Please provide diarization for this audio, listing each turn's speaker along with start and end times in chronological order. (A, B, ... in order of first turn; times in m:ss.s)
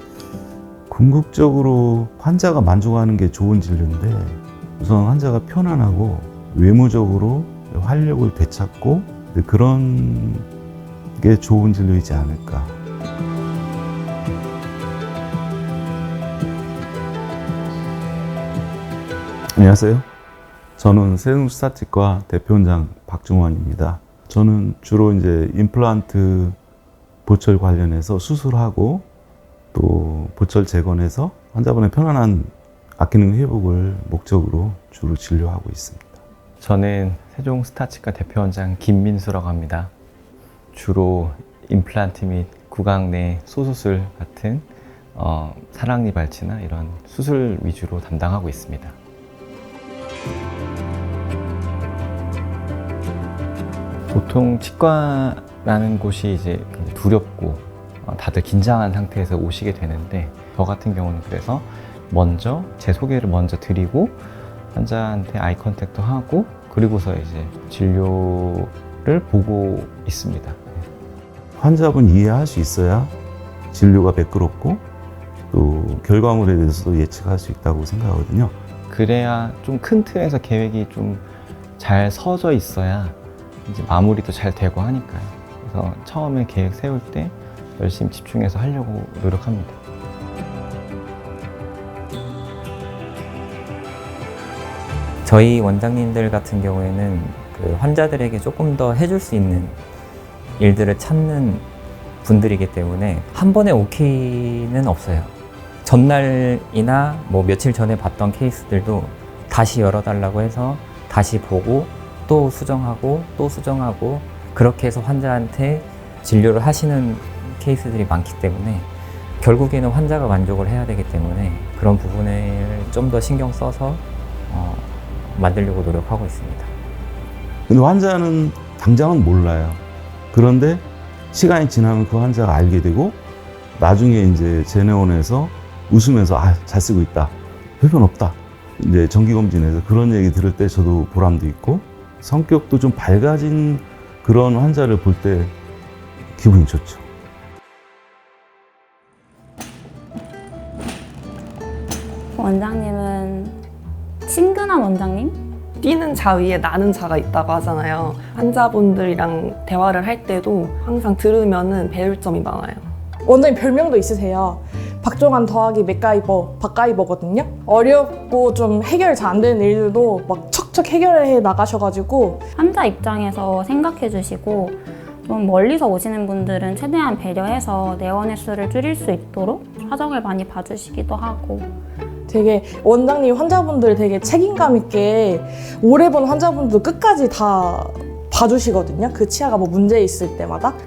0:00.9-0:10.4 A
0:11.2-0:12.8 A
0:19.5-0:20.1 A
0:20.8-0:26.6 A
0:27.2-0:29.0 A
0:29.7-0:36.2 A
0:36.6-0:39.9 B
0:40.7-0:49.0 B
0:54.1-1:04.2 B
1:04.7-1:10.8 B
1:11.6-1:13.1 A
1:13.7-1:14.8 A
1:15.5-1:18.5 A
1:18.9-1:29.8 B
1:35.2-1:39.8 C
1:40.6-1:41.6 C
1:42.2-1:45.3 C
1:45.8-1:58.9 C
1:59.4-2:06.7 C
2:07.7-2:13.2 A
2:13.8-2:25.5 A
2:26.4-2:27.1 A
2:32.4-2:33.6 D
2:34.2-2:35.4 D
2:35.8-2:42.9 E
2:43.2-2:52.4 F
2:52.6-3:01.7 D
3:02.3-3:10.8 F